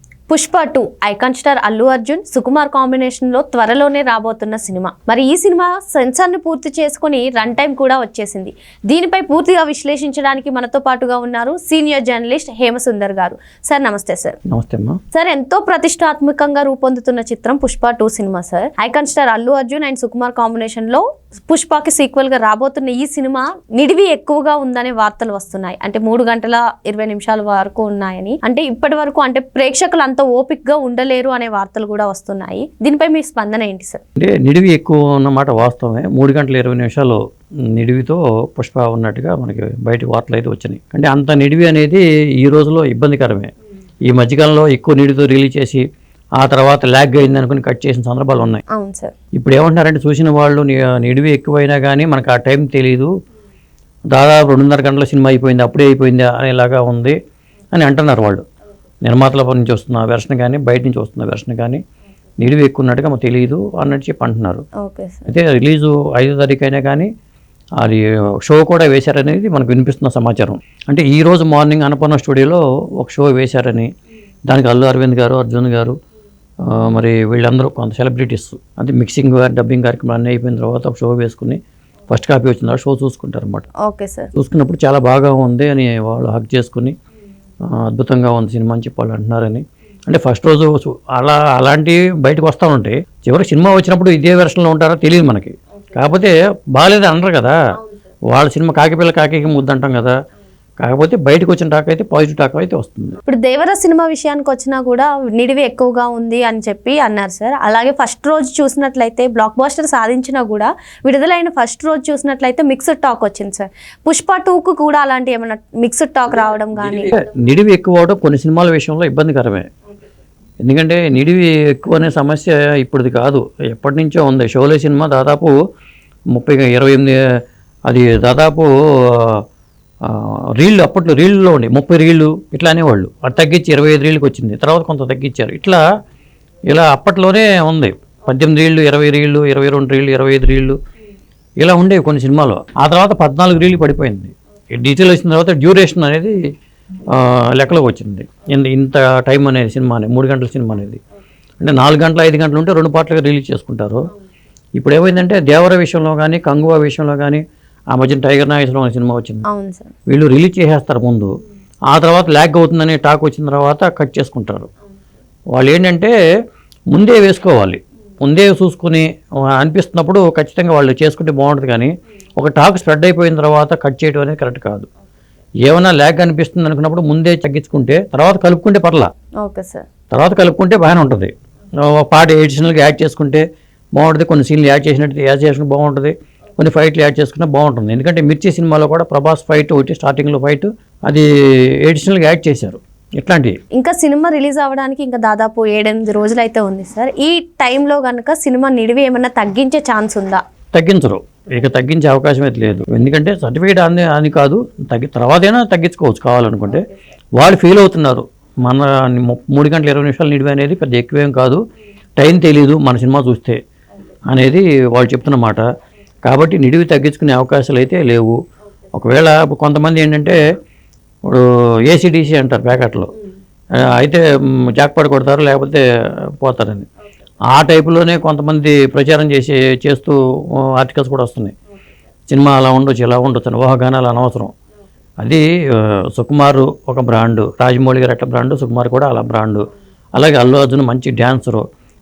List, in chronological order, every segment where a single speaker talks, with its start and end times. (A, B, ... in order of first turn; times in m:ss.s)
0:00.3-0:14.4 A
0:14.5-0:15.0 B
0:15.1-0:34.0 A
0:34.2-0:37.2 B
0:37.7-0:43.5 B
0:44.1-0:45.8 B
0:46.4-0:48.6 B
0:48.7-0:49.1 A
0:49.3-0:53.1 B
0:54.1-0:57.2 B
0:57.7-0:58.4 B
0:59.0-1:01.8 B
1:02.4-1:04.6 B
1:04.8-1:05.3 A
1:05.3-1:07.1 B
1:07.8-1:13.9 B
1:14.5-1:16.0 B
1:16.6-1:23.7 B
1:23.8-1:24.3 A
1:24.3-1:26.9 B
1:27.7-1:37.5 B
1:38.3-1:40.1 B
1:40.8-1:43.2 B
1:43.3-1:57.1 A
1:56.7-1:59.7 B
2:00.6-2:05.5 B
2:06.3-2:07.2 B
2:07.9-2:09.4 B
2:10.0-2:15.8 B
2:16.7-2:20.8 B
2:21.6-2:26.4 B
2:27.1-2:31.0 B
2:31.6-2:34.1 B
2:34.8-2:39.4 B
2:39.5-2:39.9 A
2:40.1-2:41.3 B
2:41.9-2:44.7 B
2:45.5-2:46.1 B
2:46.9-2:54.9 B
2:55.6-2:59.1 B
2:59.4-2:59.8 A
3:00.1-3:11.3 B
3:11.8-3:13.6 B
3:13.7-3:20.4 A
3:20.7-3:31.6 B
3:32.2-3:33.6 B
3:34.3-3:35.6 B
3:36.2-3:38.4 B
3:38.9-3:40.4 B
3:41.3-3:43.1 B
3:43.8-3:45.8 B
3:46.4-3:46.9 B
3:47.5-3:51.5 B
3:52.3-3:54.5 B
3:55.2-4:01.6 B